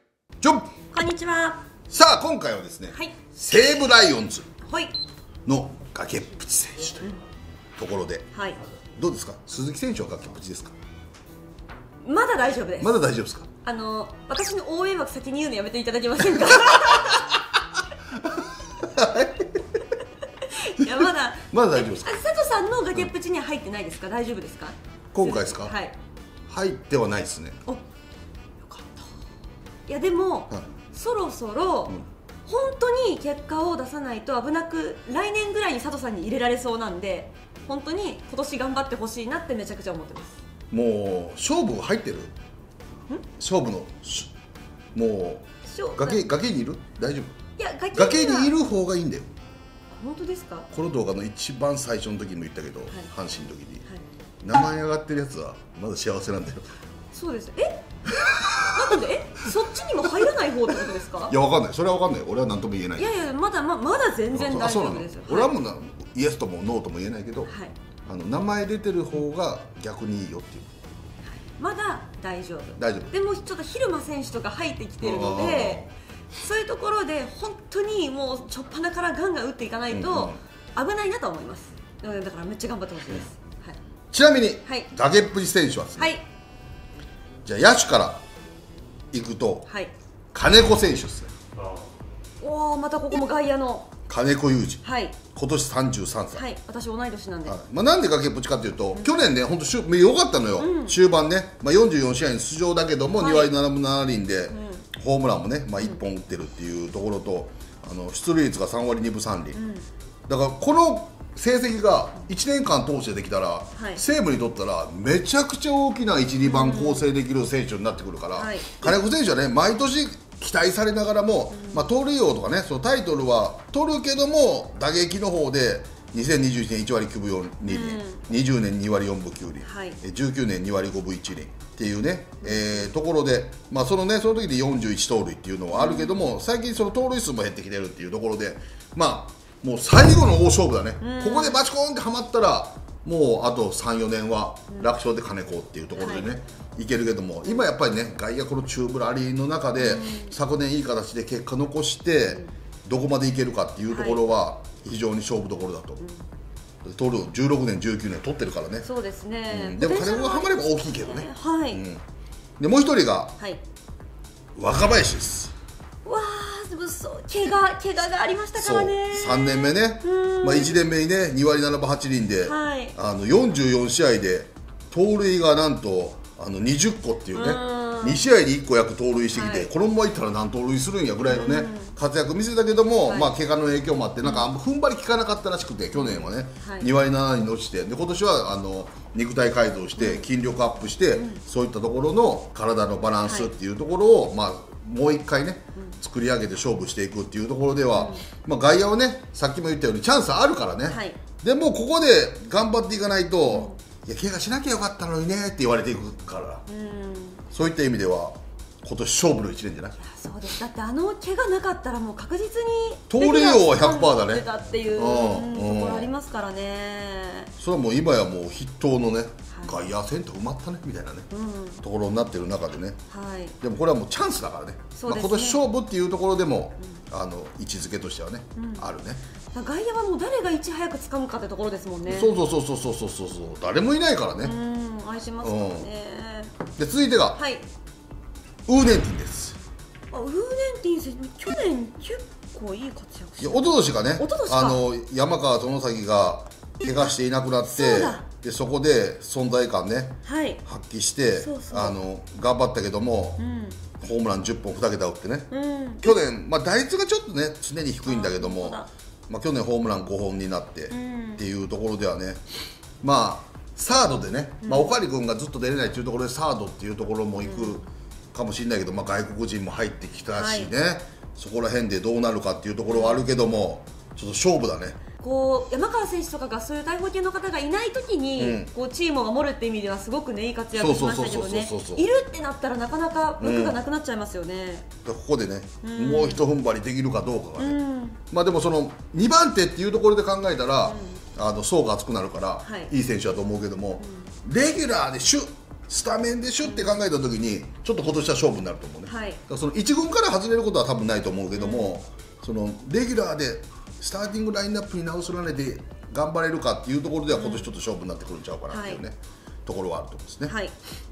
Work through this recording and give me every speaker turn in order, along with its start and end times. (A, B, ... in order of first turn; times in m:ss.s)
0:00.4-0:00.7 A
0:00.9-0:01.7 B
0:01.9-0:04.5 A
0:02.9-0:03.2 B
0:04.6-0:05.0 B
0:05.4-0:07.1 A
0:07.8-0:08.2 A
0:08.3-0:08.6 B
0:09.0-0:10.7 A
0:12.0-0:13.0 B
0:12.8-0:13.5 A
0:13.6-0:17.3 B
0:16.5-0:17.2 A
0:18.2-0:19.6 A
0:20.4-0:26.0 B
0:20.8-0:22.2 A
0:25.1-0:25.7 A
0:26.5-0:27.6 A
0:28.6-0:29.0 B
0:29.9-0:40.4 B
0:40.7-0:42.3 A
0:43.4-0:44.3 A
0:44.9-0:47.3 A
0:45.7-0:46.2 B
0:47.6-0:48.5 B
0:47.9-0:49.3 A
0:49.9-0:50.7 B
0:50.7-0:53.8 A
0:54.4-0:56.6 A
0:57.1-1:01.4 B
0:58.4-0:59.0 A
1:01.3-1:03.1 A
1:03.0-1:05.5 B
1:04.3-1:07.5 A
1:07.5-1:07.7 B
1:08.0-1:10.7 A
1:11.3-1:23.8 B
1:12.8-1:13.1 A
1:15.0-1:15.9 A
1:19.9-1:20.4 A
1:24.1-1:26.1 A
1:26.0-1:26.2 B
1:27.4-1:28.2 A
1:29.1-1:29.7 A
1:29.6-1:29.9 B
1:30.3-1:31.3 A
1:32.4-1:33.9 B
1:34.1-1:34.8 A
1:34.8-1:35.2 B
1:35.3-1:36.4 A
1:36.3-1:37.6 B
1:37.4-1:49.6 A
1:40.6-1:41.0 B
1:43.2-1:43.5 B
1:44.5-1:44.8 B
1:49.5-1:49.8 B
1:50.3-2:36.0 A
1:53.7-1:54.0 B
1:56.4-1:57.0 B
1:58.3-1:58.9 B
2:01.5-2:01.9 B
2:07.6-2:08.2 B
2:09.6-2:10.0 B
2:12.4-2:12.8 B
2:15.7-2:16.2 B
2:21.0-2:21.6 B
2:24.7-2:24.9 B
2:26.0-2:26.3 B
2:29.8-2:30.3 B
2:33.9-2:34.2 B
2:36.0-2:36.2 B
2:36.8-2:38.9 A
2:38.8-2:41.8 B
2:39.5-2:42.0 A
2:42.6-2:43.3 A
2:44.6-2:45.5 A
2:46.0-2:50.8 B
2:48.6-3:26.6 A
2:52.4-2:52.9 B
2:57.3-2:58.2 B
2:59.3-2:59.7 B
3:01.2-3:01.9 B
3:03.1-3:03.3 B
3:04.2-3:04.5 B
3:05.9-3:06.9 B
3:10.0-3:10.2 B
3:11.1-3:11.4 B
3:13.2-3:13.5 B
3:17.9-3:18.2 B
3:20.9-3:21.2 B
3:23.5-3:23.8 B
3:26.7-3:27.4 B
3:27.5-3:30.0 A
3:30.0-3:37.5 B
3:33.1-3:36.1 A
3:37.6-3:41.3 A
3:39.5-3:39.8 B
3:41.3-3:41.8 B
3:41.8-3:43.0 A
3:43.1-3:43.5 B
3:43.6-3:49.2 A
3:44.9-3:45.6 B
3:48.6-3:48.8 B
3:49.5-3:52.4 B
3:52.0-3:54.5 A
3:54.4-3:56.6 B
3:55.4-3:55.9 A
3:56.8-3:57.4 A
3:57.3-3:57.6 B
3:58.7-3:59.6 A
4:00.1-4:04.8 B
4:03.4-4:13.4 A
4:07.6-4:08.2 B
4:10.2-4:10.6 B
4:11.4-4:12.0 B
4:13.4-4:13.8 B
4:14.0-4:15.5 A
4:15.5-4:16.2 B
4:16.0-4:22.4 A
4:18.0-4:18.9 B
4:20.9-4:21.4 B
4:23.0-4:27.8 A
4:24.6-4:24.9 B
4:27.4-4:27.8 B
4:28.3-4:35.0 A
4:30.3-4:30.7 B
4:32.9-4:33.2 B
4:35.2-4:44.9 B
4:38.4-4:38.7 A
4:40.7-4:42.0 A
4:43.4-4:43.8 A
4:45.0-4:47.8 A
4:45.8-4:46.4 B
4:47.6-4:48.2 B
4:48.3-5:09.1 A
4:50.8-4:51.2 B
4:52.6-4:52.9 B
4:54.0-4:54.3 B
4:56.6-4:57.0 B
4:59.0-4:59.4 B
5:01.5-5:01.9 B
5:07.3-5:07.7 B
5:08.7-5:09.0 B
5:09.6-5:10.5 A
5:10.4-5:10.7 B